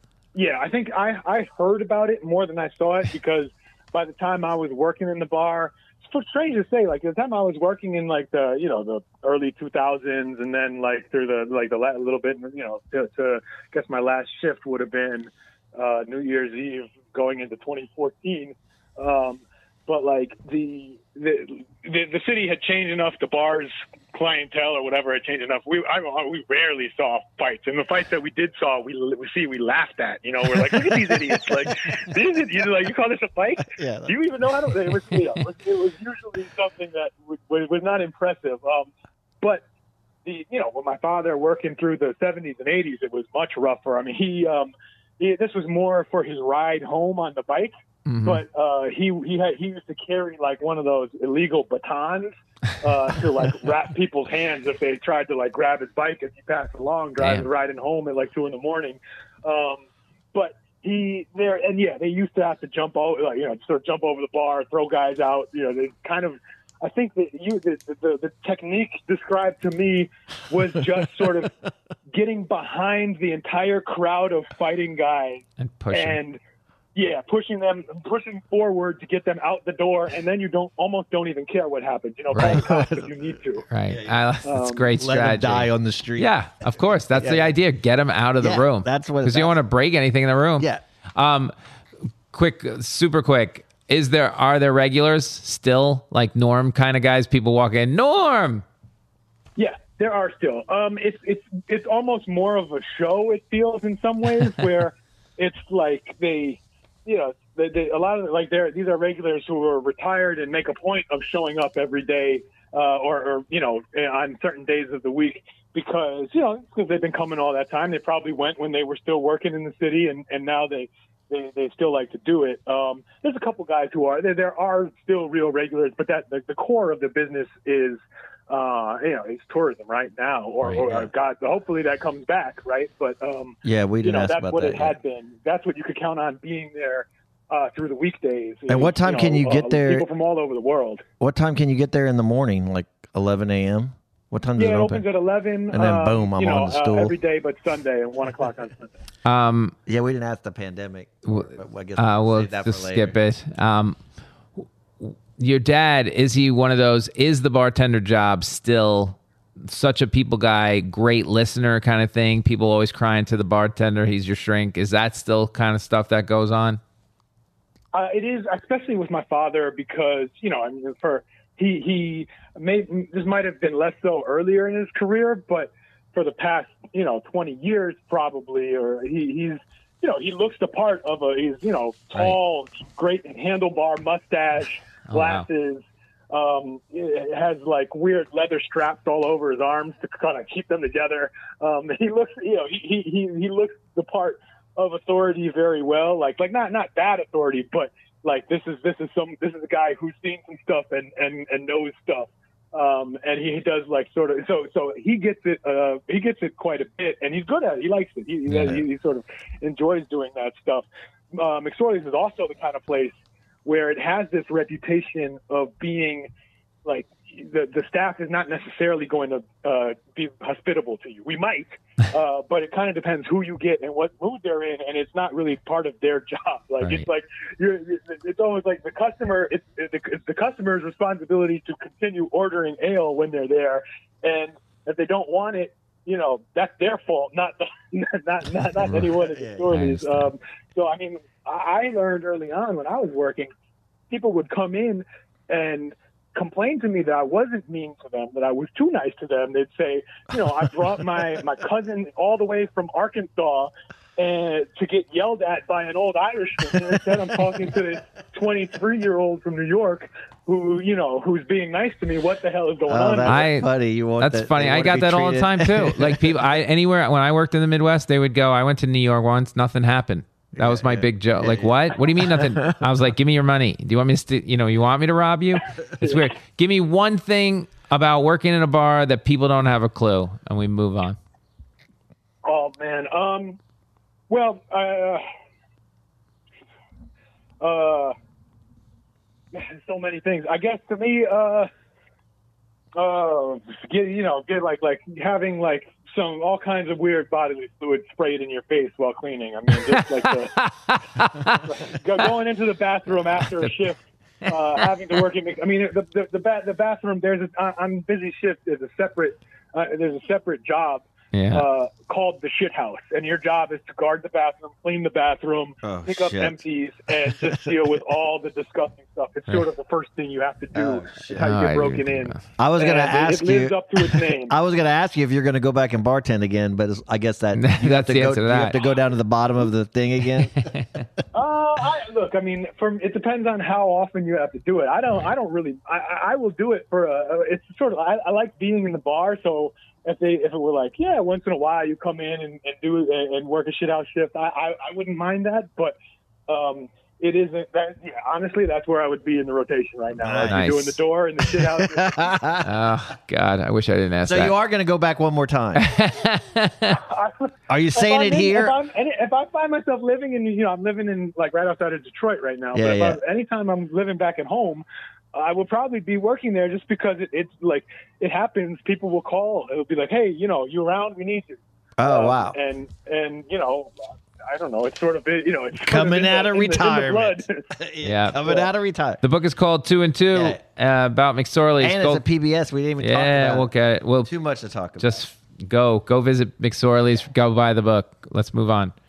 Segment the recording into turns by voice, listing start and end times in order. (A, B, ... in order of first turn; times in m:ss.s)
0:00.3-0:38.9 A
0:33.7-0:34.1 B
0:40.2-1:11.6 A
0:48.0-0:48.4 C
0:57.2-0:57.4 C
1:12.1-1:16.4 A
1:15.6-1:16.2 C
1:16.9-1:23.6 A
1:22.4-1:23.1 B
1:23.7-1:31.5 C
1:23.9-1:24.1 B
1:24.4-1:24.8 A
1:25.0-1:26.3 B
1:27.1-1:27.5 B
1:28.4-1:29.6 B
1:32.3-1:38.6 C
1:39.6-2:21.0 A
2:13.6-2:14.9 B
2:18.7-2:20.0 B
2:21.2-2:25.0 B
2:24.6-2:29.0 A
2:25.7-2:27.2 B
2:29.2-2:29.7 C
2:29.8-2:33.2 B
2:31.3-2:34.0 C
2:35.0-2:46.8 C
2:47.9-3:36.3 A
3:05.1-3:05.4 C
3:28.5-3:28.8 B
3:36.8-4:03.5 A
3:59.3-3:59.7 B
3:59.7-4:00.3 C
4:04.1-4:23.4 A
4:22.9-4:26.4 B
4:23.2-4:41.2 C
4:30.6-4:32.7 B
4:42.4-4:43.6 A
4:44.3-4:45.2 A
4:47.6-4:48.1 A
4:49.5-4:51.7 A
4:53.0-5:00.5 A
5:00.6-5:01.7 C
5:01.6-5:24.5 A
5:11.3-5:11.6 C
5:15.8-5:16.6 B
5:17.5-5:17.7 B
5:20.7-5:21.4 B
5:21.3-5:22.4 C
5:22.6-5:30.7 B
5:27.5-5:28.8 C
5:30.6-5:31.0 C
5:31.3-5:45.9 A
5:46.5-5:52.3 A
5:50.2-5:50.6 B
5:50.5-5:51.0 C
5:51.4-5:52.7 B
5:52.6-5:54.5 C
5:54.3-5:55.8 B
5:55.8-5:57.0 C
5:56.9-6:17.6 A
5:57.7-5:58.8 B
6:02.7-6:03.2 B
6:12.0-6:12.6 B
6:15.8-6:19.2 B
6:18.0-6:18.4 C
6:19.2-6:22.2 C
6:20.3-6:20.6 B
6:21.8-6:23.7 B
6:23.0-6:24.3 C
6:24.2-6:25.2 B
6:25.0-6:28.9 C